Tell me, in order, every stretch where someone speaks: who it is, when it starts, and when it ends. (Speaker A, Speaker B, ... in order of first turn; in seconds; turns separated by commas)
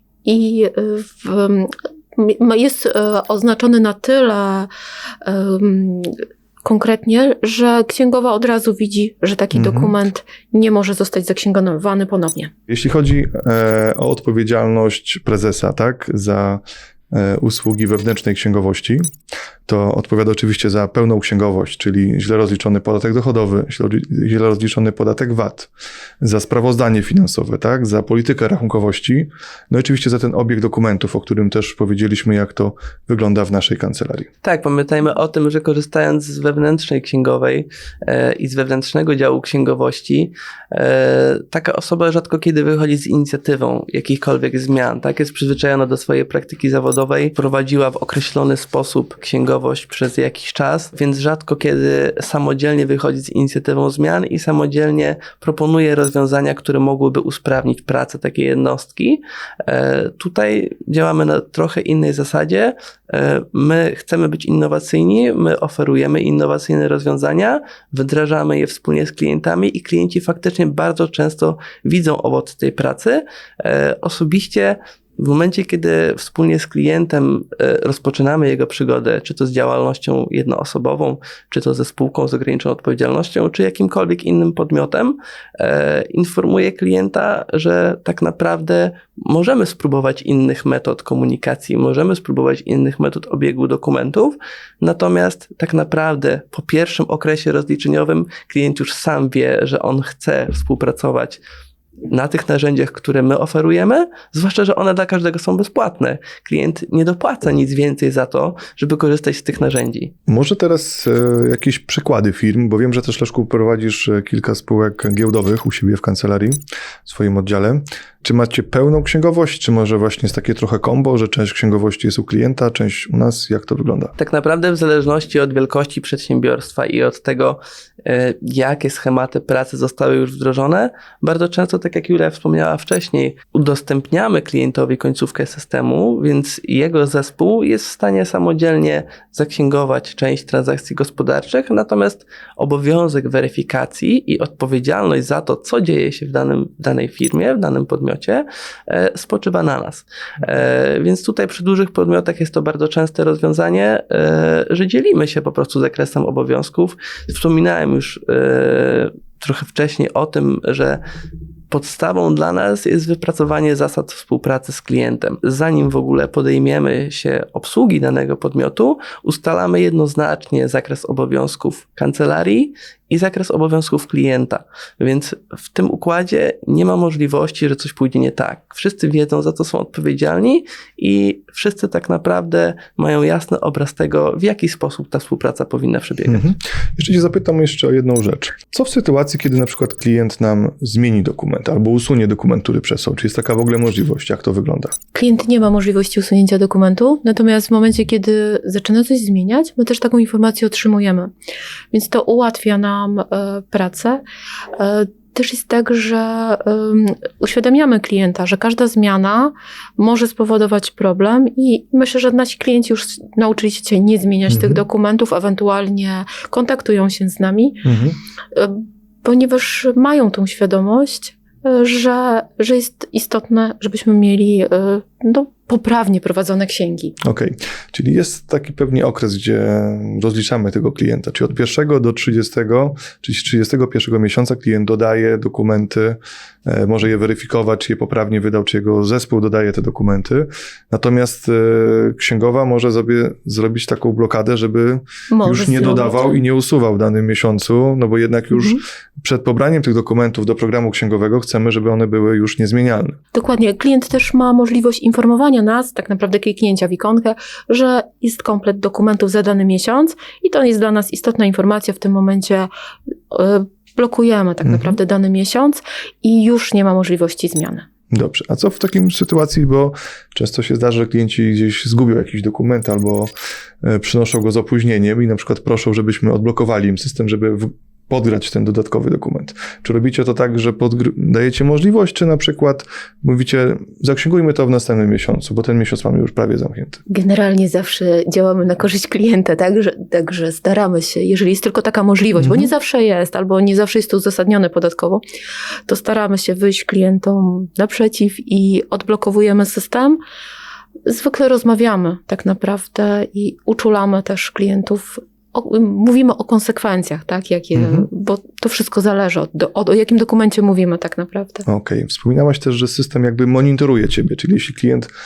Speaker A: 0.2-4.7, Speaker A: 5.2-12.5, Speaker B: 9.5-9.9, Speaker B: 12.7-19.0, Speaker B: 19.7-25.7, Speaker B: 26.2-34.3, Speaker C: 34.4-101.4, Speaker C: 102.1-110.1, Speaker B: 110.3-124.1, Speaker C: 124.2-161.0, Speaker C: 161.7-186.5, Speaker B: 186.2-194.9, Speaker A: 195.1-201.3, Speaker A: 201.9-204.2, Speaker A: 204.8-217.8, Speaker B: 214.5-214.8, Speaker B: 217.8-218.2, Speaker A: 218.5-227.2, Speaker B: 227.2-253.2, Speaker A: 245.3-246.3, Speaker A: 248.5-248.8, Speaker A: 253.3-262.7, Speaker A: 263.3-267.9, Speaker B: 264.6-265.0, Speaker B: 268.1-273.3, Speaker B: 273.8-287.0, Speaker A: 287.1-295.2, Speaker B: 292.4-292.7, Speaker A: 295.9-300.2, Speaker A: 301.1-311.6, Speaker B: 307.8-308.1, Speaker B: 311.7-315.1